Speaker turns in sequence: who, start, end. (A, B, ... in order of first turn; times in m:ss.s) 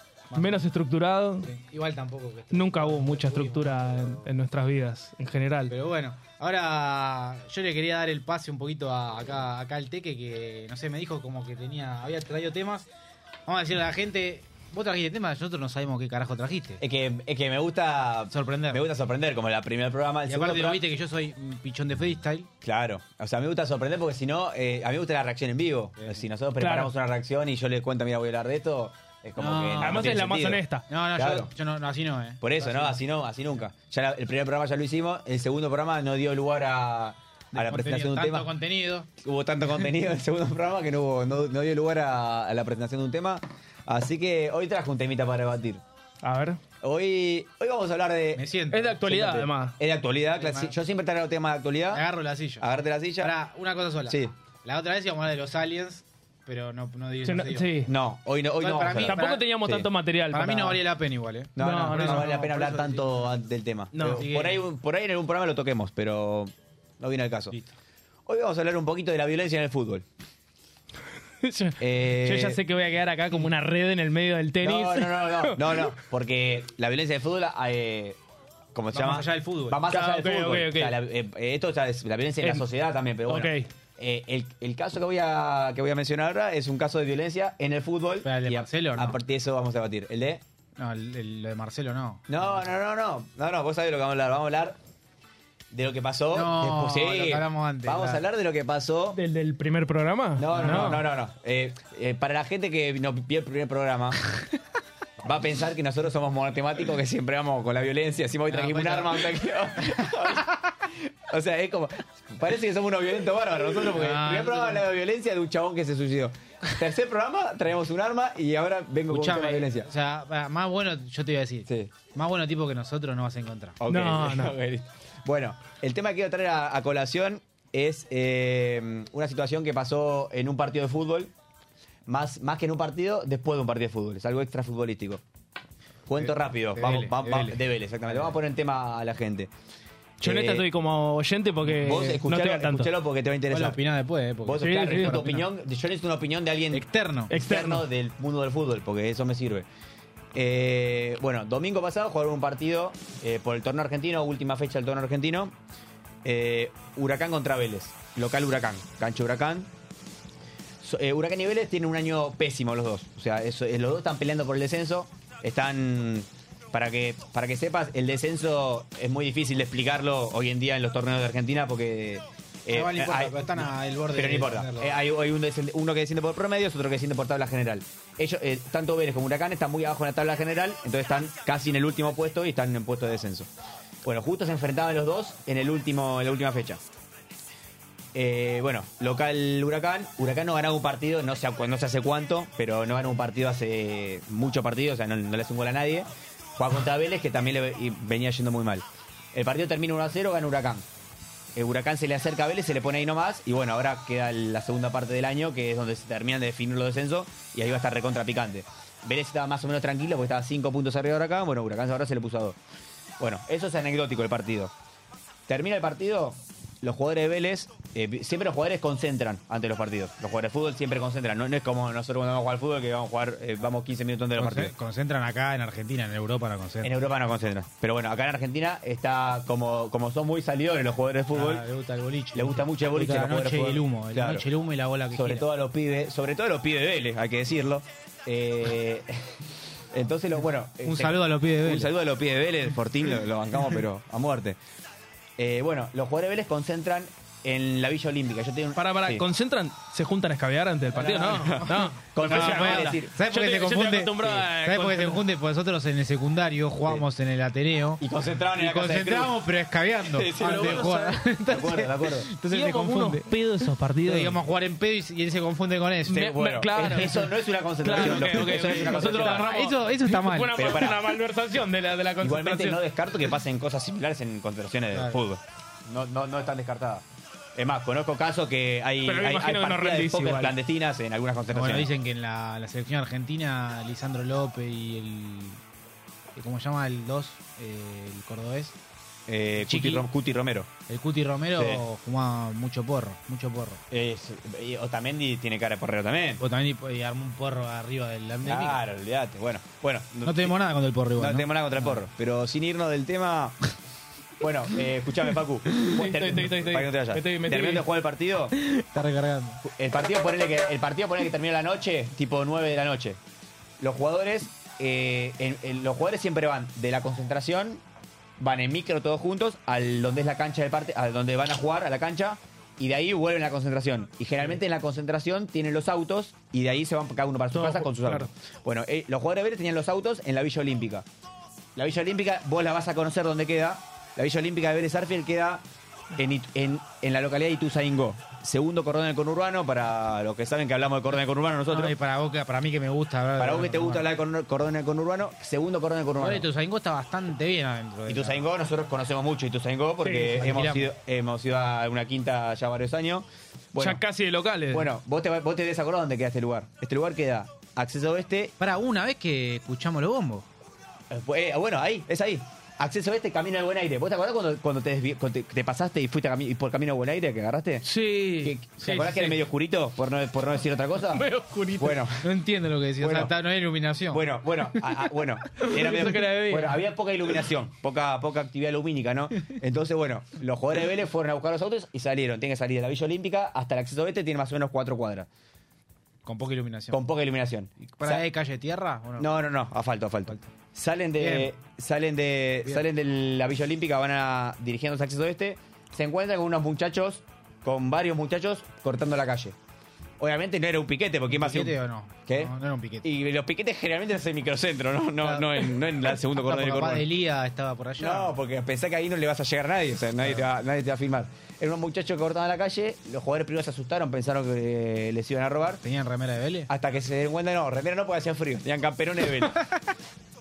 0:00.3-0:00.6 A
0:00.3-0:01.5 B
0:01.4-0:04.3 A
0:02.5-0:05.7 B
0:05.7-0:12.9 A
0:13.4-0:16.8 A
0:16.8-0:20.8 C
0:18.3-0:18.8 A
0:20.3-0:22.5 A
0:22.6-0:31.5 C
0:26.0-0:26.2 A
0:26.6-0:26.9 B
0:29.4-0:30.2 A
0:29.8-0:30.8 B
0:30.9-0:33.0 A
0:32.4-0:38.5 C
0:37.5-0:39.1 A
0:39.2-0:45.8 C
0:46.2-0:46.6 B
0:46.8-0:48.4 C
0:48.3-0:49.0 A
0:48.7-0:49.8 B
0:49.0-0:52.0 C
0:50.4-0:50.7 A
0:51.9-0:57.7 A
0:52.6-0:53.3 C
0:54.1-0:54.3 C
0:57.2-0:57.9 B
0:57.8-0:59.9 C
0:58.6-0:59.4 A
0:59.0-1:00.8 B
1:00.3-1:03.3 A
1:01.6-1:07.5 C
1:01.6-1:02.3 B
1:03.9-1:04.2 B
1:04.0-1:04.6 A
1:08.2-1:10.0 C
1:11.4-1:15.9 B
1:11.8-1:12.6 C
1:14.6-1:18.2 C
1:18.7-1:30.4 C
1:18.9-1:19.8 A
1:19.9-1:21.0 B
1:23.3-1:23.7 B
1:28.2-1:29.2 A
1:30.8-1:32.6 A
1:32.3-1:34.8 C
1:35.7-1:39.2 C
1:36.3-1:38.2 A
1:39.1-1:41.1 B
1:40.4-1:44.2 C
1:40.5-1:41.0 A
1:45.2-1:59.9 C
1:48.5-1:49.4 A
1:53.8-1:54.8 A
1:59.1-2:03.8 A
2:01.7-2:01.9 C
2:03.8-2:11.3 C
2:03.9-2:04.6 B
2:12.1-2:15.2 C
2:16.1-2:19.5 C
2:16.2-2:18.4 A
2:20.2-2:20.6 C
2:20.2-2:22.9 B
2:21.6-2:23.8 C
2:23.5-2:25.4 A
2:24.4-2:29.7 C
2:24.6-2:25.2 B
2:26.7-2:27.3 A
2:27.3-2:27.8 B
2:30.3-2:35.5 C
2:36.2-2:39.7 C
2:40.8-3:03.5 C
2:52.7-2:55.0 A
3:04.0-3:06.8 C
3:08.1-3:20.9 C
3:21.5-3:32.6 C
3:33.2-3:34.7 C
3:35.5-3:44.7 C
3:44.4-3:46.9 A
3:46.8-3:51.6 C
3:51.3-3:55.4 A
3:52.3-3:54.4 C
3:55.1-4:04.6 C
4:00.8-4:01.9 A
4:05.4-4:09.2 C
4:08.8-4:15.2 B
4:10.9-4:13.1 C
4:12.2-4:18.0 A
4:18.0-4:19.4 C
4:18.5-4:23.4 A
4:20.0-4:20.9 C
4:20.4-4:21.3 B
4:21.5-4:22.3 C
4:22.5-4:24.4 B
4:24.0-4:26.3 A
4:26.1-4:29.5 C
4:26.1-4:27.3 B
4:26.9-4:27.2 A
4:27.8-4:32.8 B
4:27.9-4:30.8 A
4:30.5-4:31.1 C
4:32.2-4:37.0 C
4:34.9-4:35.2 A
4:37.6-4:41.9 C
4:39.0-4:40.5 B
4:41.5-4:45.6 A
4:46.4-4:48.8 A
4:49.3-4:50.7 C
4:49.6-4:50.1 A
4:50.9-4:53.8 A
4:51.6-4:51.8 C
4:53.9-4:56.4 C
4:56.4-4:58.8 A
4:58.4-5:00.6 C
5:00.2-5:02.0 A
5:01.2-5:03.6 C
5:04.4-5:08.6 C
5:05.7-5:07.8 B
5:08.6-5:09.6 A
5:09.6-5:13.2 C
5:13.8-5:17.8 C
5:18.4-5:31.0 C
5:27.5-5:28.3 B
5:31.8-5:42.0 C
5:41.7-5:44.1 A
5:43.4-5:46.5 C
5:46.2-5:48.5 A
5:48.1-5:54.0 C
5:50.0-5:50.9 A
5:53.8-5:54.9 B
5:54.7-5:58.5 C
5:58.6-6:00.5 A
6:01.1-6:07.9 C
6:07.8-6:09.4 B
6:08.4-6:12.2 C
6:11.1-6:12.1 B
6:12.2-6:14.4 A
6:13.0-6:13.3 C
6:14.1-6:25.3 C
6:15.6-6:16.8 B
6:26.2-6:27.0 A
6:26.9-6:28.2 C
6:27.9-6:29.3 A
6:29.2-6:39.6 C
6:31.2-6:31.5 A
6:40.2-6:41.8 C
6:41.3-6:43.0 A
6:42.3-6:47.1 C
6:45.2-6:45.7 A
6:46.3-6:48.4 A
6:48.0-6:55.8 C
6:50.2-6:50.5 A
6:55.8-6:56.7 A
6:56.7-6:59.6 C